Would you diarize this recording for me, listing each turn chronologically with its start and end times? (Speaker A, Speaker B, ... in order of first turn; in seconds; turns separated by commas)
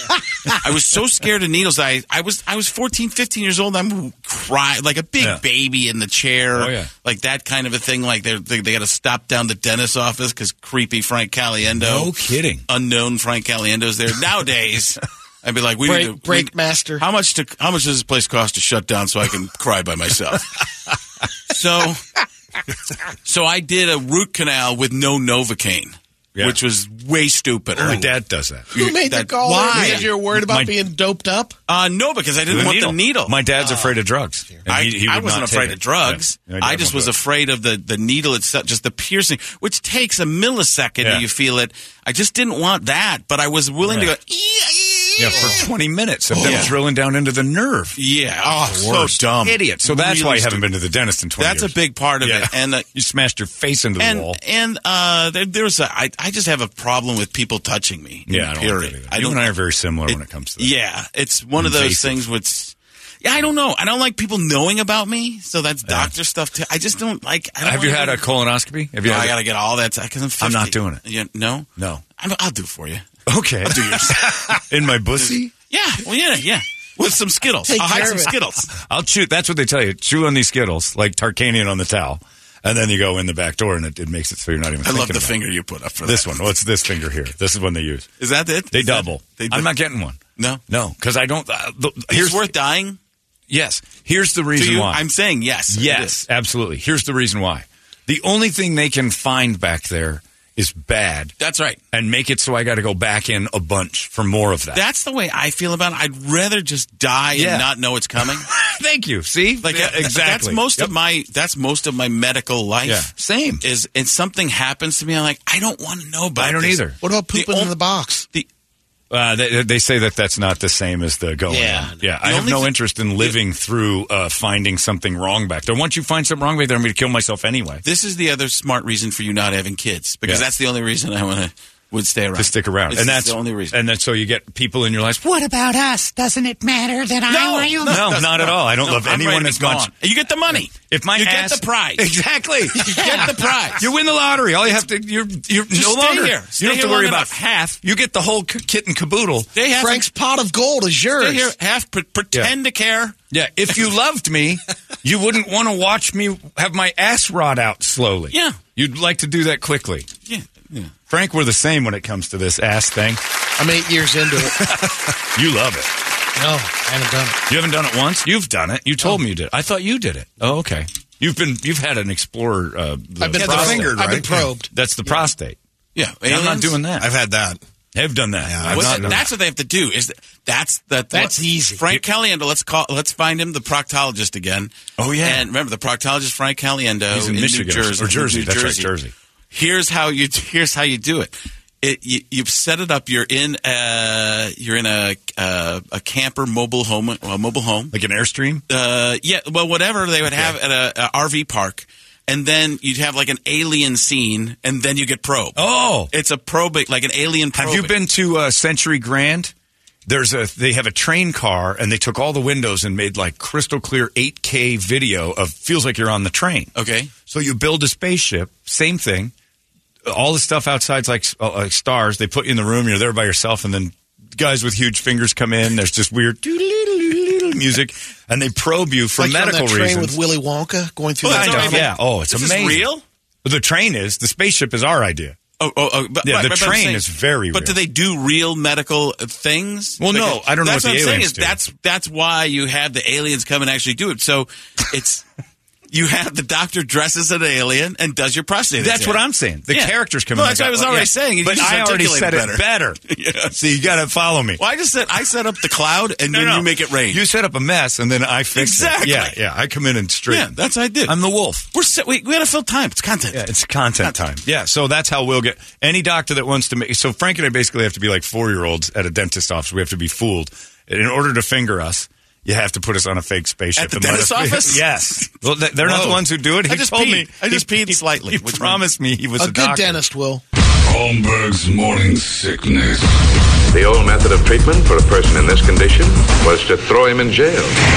Speaker A: 0.6-12.1, Speaker B: 6.5-6.9, Speaker B: 11.8-12.7, Speaker A: 12.7-20.6, Speaker C: 15.8-17.1, Speaker A: 21.5-22.0, Speaker A: 23.2-28.0, Speaker B: 26.4-26.6, Speaker B: 27.8-28.7, Speaker C: 27.8-28.1, Speaker C: 28.7-31.5, Speaker A: 28.7-30.1, Speaker B: 29.7-30.8, Speaker A: 31.7-33.4, Speaker B: 32.5-37.2, Speaker C: 33.6-33.9, Speaker A: 34.7-45.7, Speaker B: 43.9-44.1, Speaker B: 45.2-48.0, Speaker A: 46.3-46.8, Speaker A: 48.0-50.7, Speaker C: 48.5-49.2, Speaker B: 49.4-54.4, Speaker A: 51.4-52.9, Speaker A: 54.0-68.2, Speaker B: 58.3-60.8, Speaker B: 61.6-62.2, Speaker B: 65.8-66.1, Speaker B: 67.6-69.4, Speaker A: 69.0-73.0, Speaker B: 70.4-71.0, Speaker B: 71.8-72.0, Speaker B: 73.3-75.5, Speaker A: 73.6-74.4, Speaker A: 75.2-78.7, Speaker C: 77.6-78.3, Speaker B: 78.7-85.4, Speaker A: 84.8-86.5, Speaker B: 86.0-88.1, Speaker A: 88.2-89.8, Speaker B: 88.7-92.5, Speaker A: 90.4-90.6, Speaker A: 92.1-93.0, Speaker B: 93.5-95.0, Speaker A: 94.5-96.2, Speaker B: 95.7-101.3, Speaker A: 101.4-101.8, Speaker B: 101.9-104.8, Speaker A: 104.7-108.5, Speaker B: 107.3-107.7, Speaker B: 108.2-110.9, Speaker A: 109.6-117.7, Speaker B: 112.8-113.6, Speaker B: 116.4-117.0, Speaker C: 117.0-118.2, Speaker B: 119.1-127.8, Speaker C: 121.5-122.1, Speaker A: 122.2-123.4, Speaker A: 127.8-133.8, Speaker B: 132.4-139.9, Speaker A: 137.3-142.0, Speaker B: 140.7-142.9, Speaker A: 142.8-143.8, Speaker C: 142.8-143.3, Speaker B: 143.8-149.5, Speaker A: 145.7-147.7, Speaker A: 149.5-150.1, Speaker C: 149.7-151.5, Speaker A: 151.2-153.1, Speaker B: 153.3-160.1, Speaker A: 158.3-158.6, Speaker A: 160.2-160.9, Speaker B: 161.1-163.2, Speaker C: 163.6-164.7, Speaker B: 164.4-165.9, Speaker C: 166.4-167.4, Speaker B: 167.5-174.1, Speaker C: 173.2-175.2, Speaker D: 173.5-174.4, Speaker B: 174.7-175.6, Speaker A: 175.9-176.8, Speaker B: 176.2-177.1, Speaker D: 177.0-177.6, Speaker B: 177.9-179.2, Speaker D: 178.4-179.2, Speaker A: 178.6-188.9, Speaker C: 181.1-181.8, Speaker B: 185.1-185.5, Speaker B: 187.1-189.1, Speaker A: 189.5-197.9, Speaker B: 197.9-198.6, Speaker A: 198.7-208.0, Speaker B: 200.2-200.6, Speaker B: 205.6-206.1, Speaker B: 207.5-209.5, Speaker B: 210.1-216.7, Speaker A: 216.7-217.1, Speaker B: 217.3-219.3, Speaker B: 220.1-230.2, Speaker C: 229.2-231.9, Speaker A: 231.2-233.0, Speaker B: 231.2-232.9, Speaker B: 233.4-235.4, Speaker A: 235.6-245.2, Speaker B: 236.2-237.8, Speaker B: 240.0-241.6, Speaker A: 245.9-253.6, Speaker B: 248.8-254.6, Speaker A: 254.6-257.2, Speaker B: 256.3-261.7, Speaker A: 258.5-259.4, Speaker A: 260.3-261.2, Speaker A: 261.7-263.4, Speaker B: 263.3-280.0, Speaker A: 264.0-264.2, Speaker A: 273.8-278.9, Speaker C: 279.4-280.4, Speaker E: 280.9-283.2, Speaker F: 283.7-287.8